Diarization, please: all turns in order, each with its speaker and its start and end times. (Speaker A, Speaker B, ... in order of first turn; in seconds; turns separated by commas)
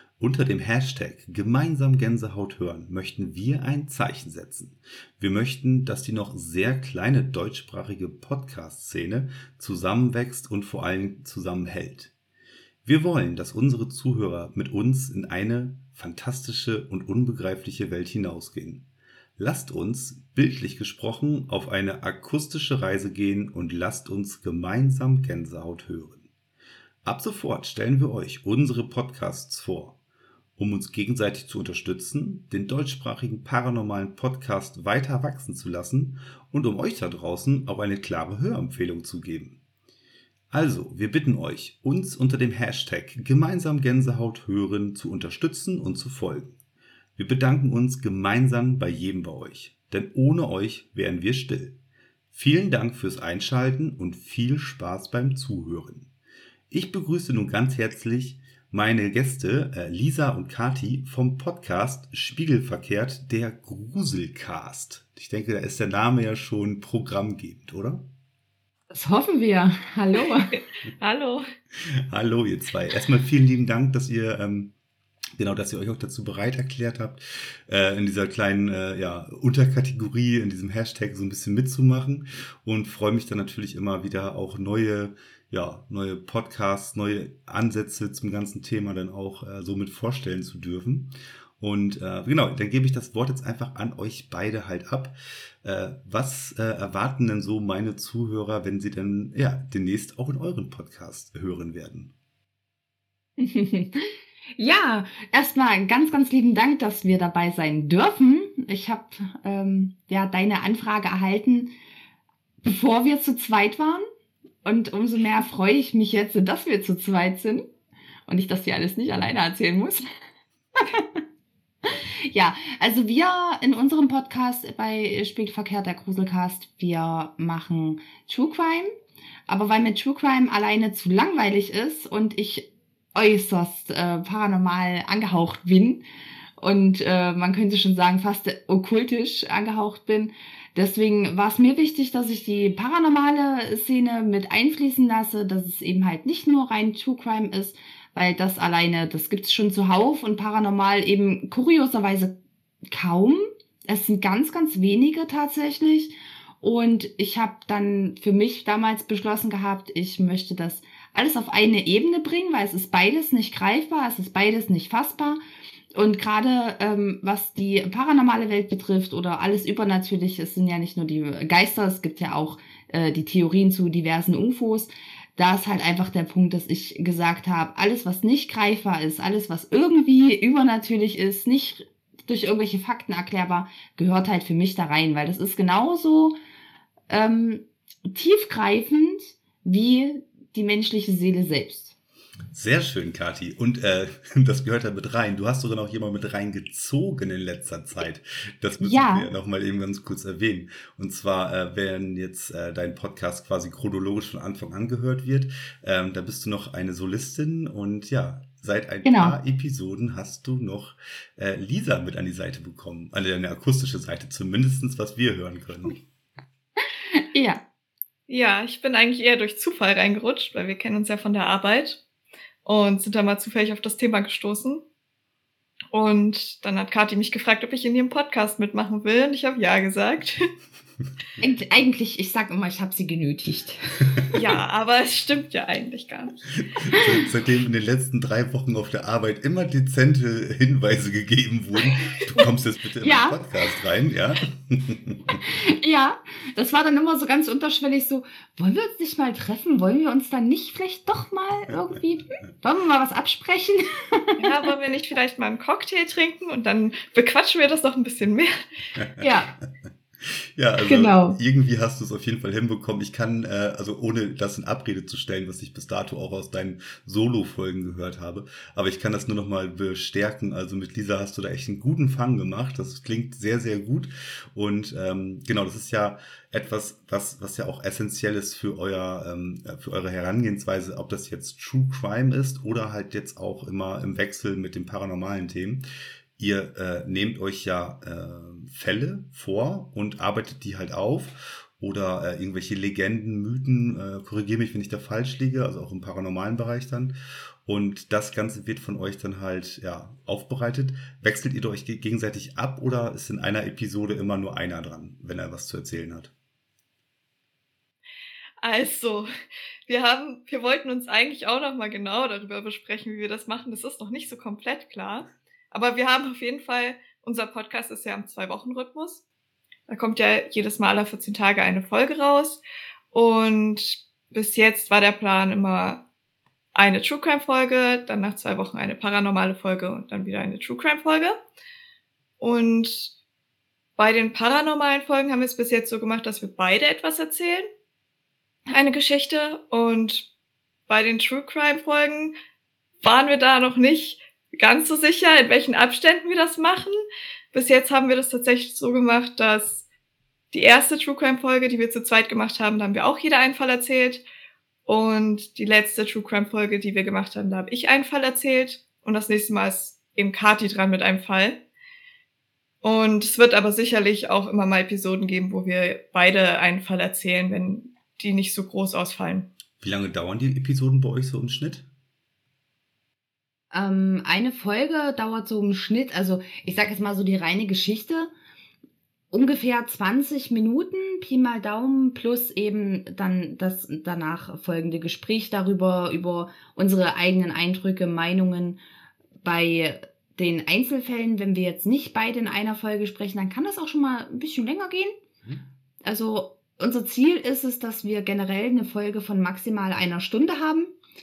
Speaker A: 0.2-12.1, Speaker A: 12.8-18.9, Speaker A: 19.4-26.2, Speaker A: 27.0-29.9, Speaker A: 30.6-39.6, Speaker A: 40.5-46.5, Speaker A: 47.1-51.8, Speaker A: 52.3-56.1, Speaker A: 56.7-68.0, Speaker B: 68.9-70.5, Speaker C: 70.5-71.4, Speaker A: 72.1-74.7, Speaker A: 75.4-102.1, Speaker B: 103.4-111.7, Speaker B: 112.6-114.0, Speaker B: 114.6-117.6, Speaker B: 118.3-120.0, Speaker B: 120.8-121.2, Speaker B: 121.8-128.9, Speaker B: 129.5-136.0, Speaker B: 136.6-152.3, Speaker B: 152.9-165.4, Speaker B: 165.9-186.3, Speaker B: 187.1-191.9, Speaker A: 192.5-216.0, Speaker B: 198.8-199.3, Speaker B: 209.0-209.4, Speaker B: 217.2-217.6, Speaker C: 218.3-222.0, Speaker C: 222.6-224.8, Speaker C: 225.9-230.4, Speaker B: 231.4-233.9, Speaker C: 234.3-236.4, Speaker A: 236.8-245.3, Speaker B: 243.0-243.4, Speaker B: 245.4-254.5, Speaker C: 254.4-258.6, Speaker A: 258.9-259.6, Speaker B: 259.2-259.5, Speaker A: 260.6-285.8, Speaker B: 260.8-261.4, Speaker A: 286.4-297.1, Speaker A: 297.6-306.3, Speaker C: 308.6-309.3, Speaker C: 309.9-319.2, Speaker C: 319.9-322.6, Speaker C: 323.1-326.0, Speaker C: 326.7-331.3, Speaker C: 332.4-333.1, Speaker C: 334.0-337.7, Speaker C: 338.7-340.2, Speaker C: 340.9-342.3, Speaker C: 343.0-349.8, Speaker C: 350.5-354.2, Speaker C: 354.9-361.6, Speaker C: 362.8-369.4, Speaker A: 369.8-371.9, Speaker B: 373.7-378.3, Speaker B: 379.3-388.8, Speaker B: 389.4-395.2, Speaker B: 396.0-400.9